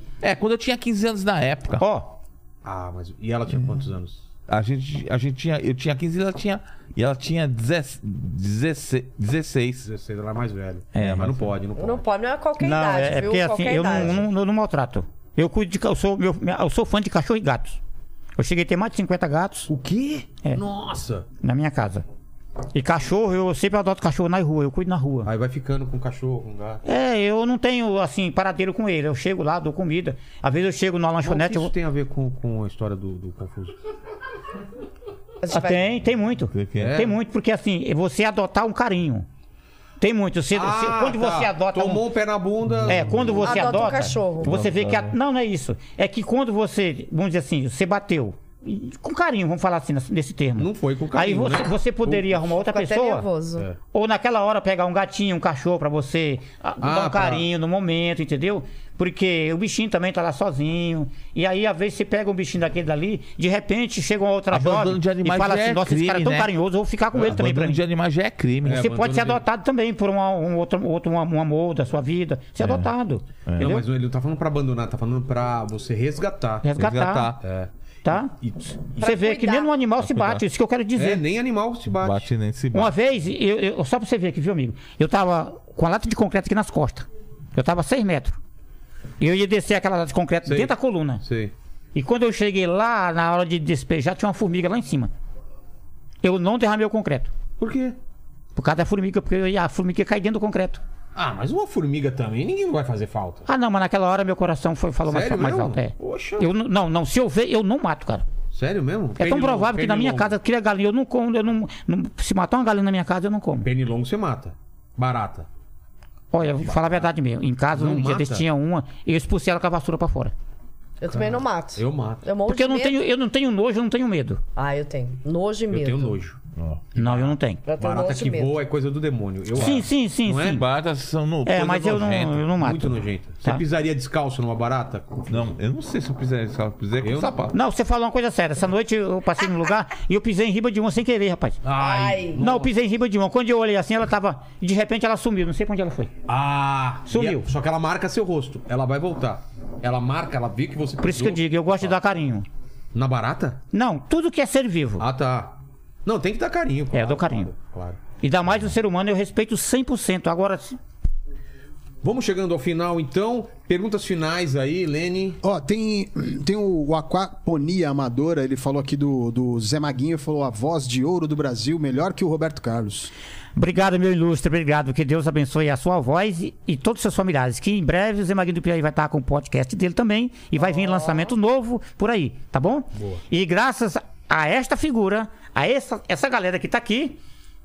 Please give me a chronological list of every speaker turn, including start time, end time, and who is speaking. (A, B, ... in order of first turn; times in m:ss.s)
0:00.2-0:01.8 A
0:01.8-0:02.2 B
0:02.6-0:04.2 C
0:04.5-0:09.8 A
0:09.8-0:12.0 C
0:10.9-0:11.3 B
0:11.0-0:11.5 A
0:11.8-0:14.2 D
0:12.6-0:17.8 B
0:18.4-0:19.7 B
0:19.7-0:21.2 C
0:21.4-0:22.0 B
0:22.7-0:25.3 B
0:25.2-0:26.8 C
0:26.8-0:31.7 B
0:31.2-0:33.8 C
0:35.4-0:35.8 D
0:35.5-0:39.2 B
0:36.5-0:37.0 A
0:36.8-0:37.2 C
0:40.0-0:42.0 B
0:40.5-0:43.4 C
0:42.7-0:43.5 A
0:42.9-0:53.3 B
0:43.4-0:44.5 D
0:44.4-0:45.1 A
0:50.6-0:52.4 C
0:52.5-0:53.6 D
0:53.9-1:07.8 B
0:56.8-0:57.5 C
1:04.5-1:06.5 A
1:07.1-1:08.9 A
1:08.6-1:09.4 C
1:08.6-1:13.8 B
1:12.6-1:12.9 A
1:13.4-1:13.8 A
1:13.6-1:16.7 C
1:16.6-1:17.3 B
1:16.8-1:17.4 A
1:17.4-1:17.7 C
1:18.0-1:21.2 B
1:18.4-1:18.7 C
1:19.0-1:19.7 D
1:20.0-1:20.4 A
1:21.0-1:22.3 C
1:22.0-1:22.9 A
1:22.7-1:28.4 B
1:29.2-1:31.2 B
1:30.4-1:31.5 C
1:31.9-1:35.1 B
1:36.2-1:37.3 B
1:37.6-1:38.0 C
1:38.6-1:40.8 B
1:41.1-1:43.4 C
1:43.4-1:48.2 B
1:45.1-1:46.5 C
1:48.5-1:50.3 C
1:49.2-1:53.7 B
1:53.6-1:55.5 C
1:56.3-2:00.3 B
1:56.5-1:57.1 C
1:57.7-1:58.4 C
2:01.0-2:03.0 D
2:01.1-2:02.2 C
2:02.4-2:04.4 B
2:04.6-2:06.2 D
2:05.7-2:06.4 C
2:06.6-2:06.8 A
2:06.9-2:07.6 B
2:06.9-2:10.6 C
2:07.6-2:08.6 D
2:09.5-2:10.6 B
2:09.6-2:09.8 A
2:10.4-2:12.4 A
2:11.4-2:13.6 B
2:12.6-2:15.5 C
2:15.3-2:17.5 A
2:17.0-2:17.4 C
2:17.5-2:21.6 B
2:21.6-2:22.7 C
2:21.7-2:22.4 D
2:22.3-2:26.1 B
2:26.3-2:31.8 C
2:27.1-2:27.4 B
2:31.0-2:32.4 B
2:32.9-2:33.6 C
2:33.7-2:35.0 B
2:35.0-2:38.0 C
2:36.9-2:37.5 B
2:38.2-2:40.8 B
2:42.0-2:45.4 C
2:45.4-2:53.1 E
2:53.6-3:07.2 B
3:00.7-3:01.3 D